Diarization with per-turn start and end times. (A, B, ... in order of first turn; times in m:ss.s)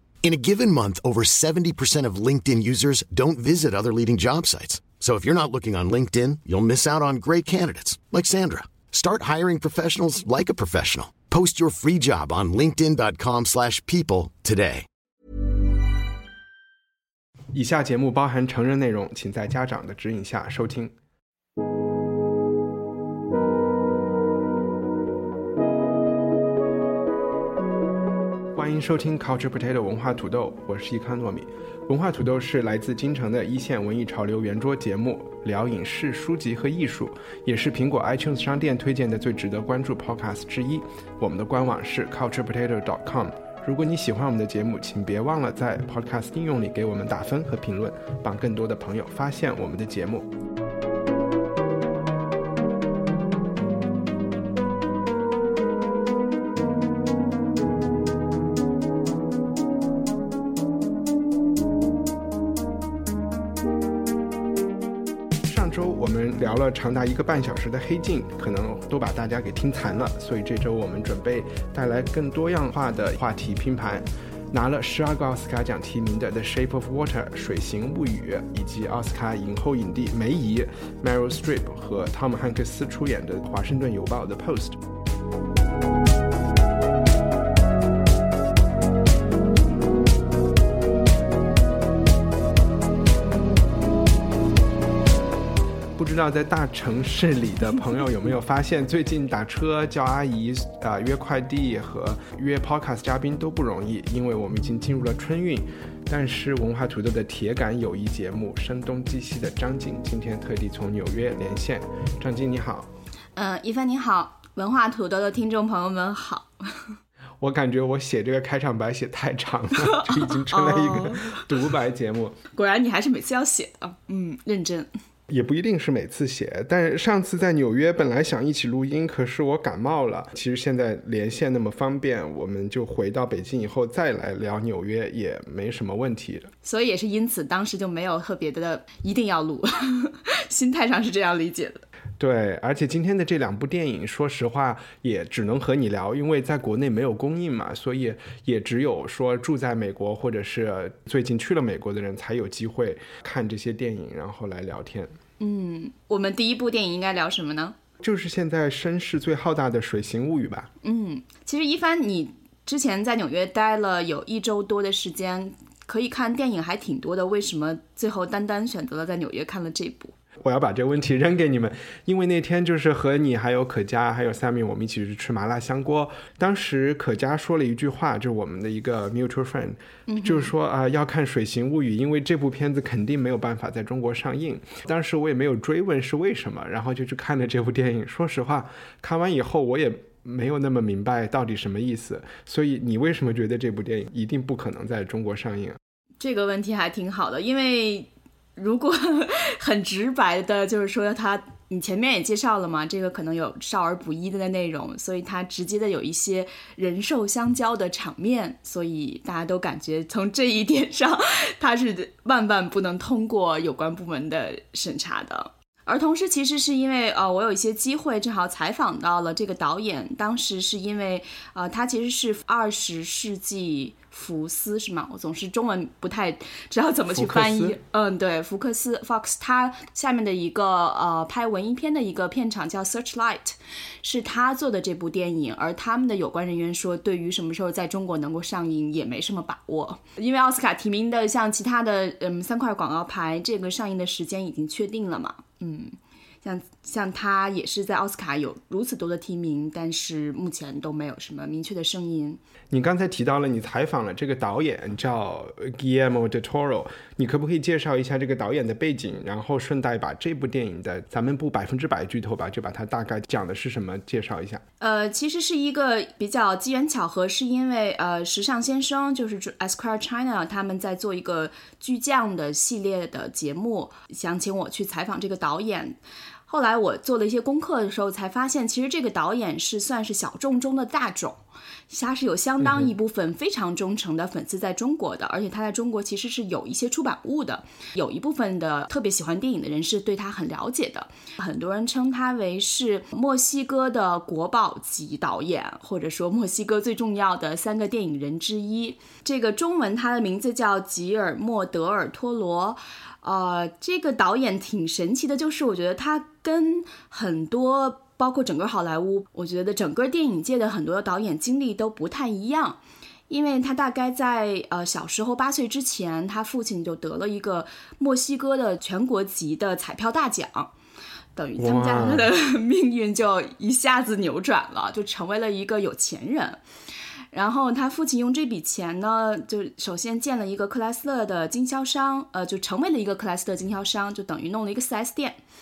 0:00.2-0:14.8 A
0:17.5-0:20.9 B
0:28.5-0:50.3 B
1:05.4-1:24.8 B
1:36.0-1:52.9 B
1:53.4-1:57.0 C
1:57.4-2:02.4 B
1:59.9-2:01.4 C
2:02.6-2:04.9 C
2:05.3-2:16.5 B
2:16.6-2:21.8 C
2:22.2-2:35.2 B
2:35.4-2:37.8 C
2:38.0-2:40.7 B
2:40.8-2:50.1 C
2:50.4-3:15.8 B
3:00.1-3:00.5 C
3:16.2-4:12.4 C
3:47.1-3:47.8 B
4:12.7-4:24.6 B
4:24.8-5:20.7 C
4:42.6-4:42.9 B
5:21.4-5:26.6 C
5:21.6-5:22.3 B
5:27.3-5:35.4 C